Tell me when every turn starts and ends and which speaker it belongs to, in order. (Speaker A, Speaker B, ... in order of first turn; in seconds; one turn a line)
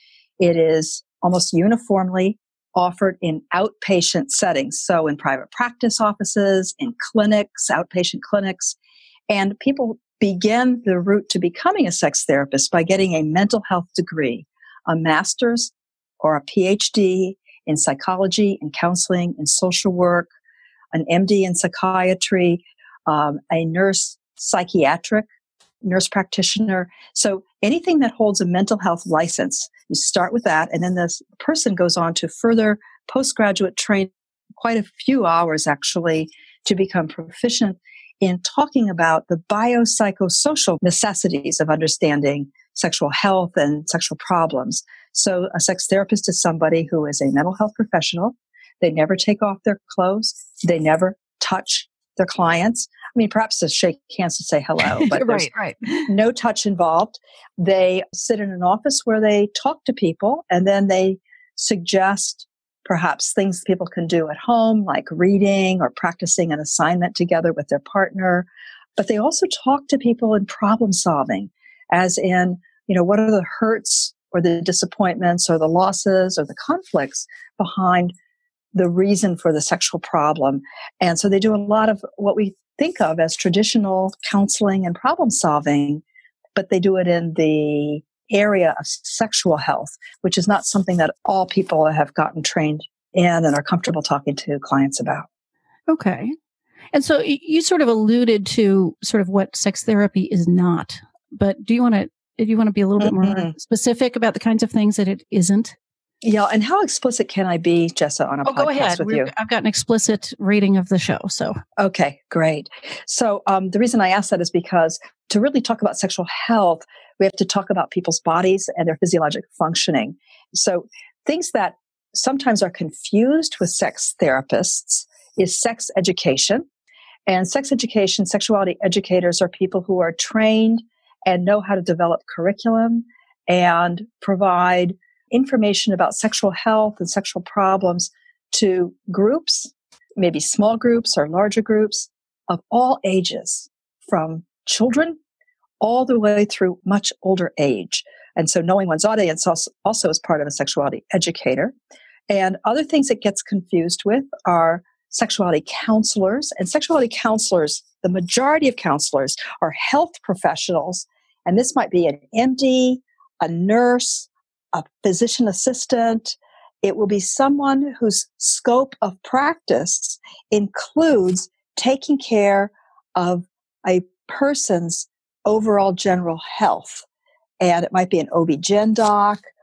Speaker A: 0.4-8.8
Speaker A: 9.3-20.3
Speaker A: 20.9-25.3
Speaker A: 25.8-55.5
Speaker B: 54.8-56.1
Speaker A: 56.0-78.1
Speaker A: 78.7-86.0
Speaker A: 86.5-95.2
Speaker B: 95.9-96.3
Speaker B: 96.9-105.8
Speaker A: 103.0-103.5
Speaker A: 106.2-109.3
Speaker B: 108.4-111.6
Speaker A: 111.8-126.7
Speaker A: 127.3-145.2
Speaker A: 145.8-151.7
Speaker A: 152.3-177.1
Speaker A: 177.6-179.4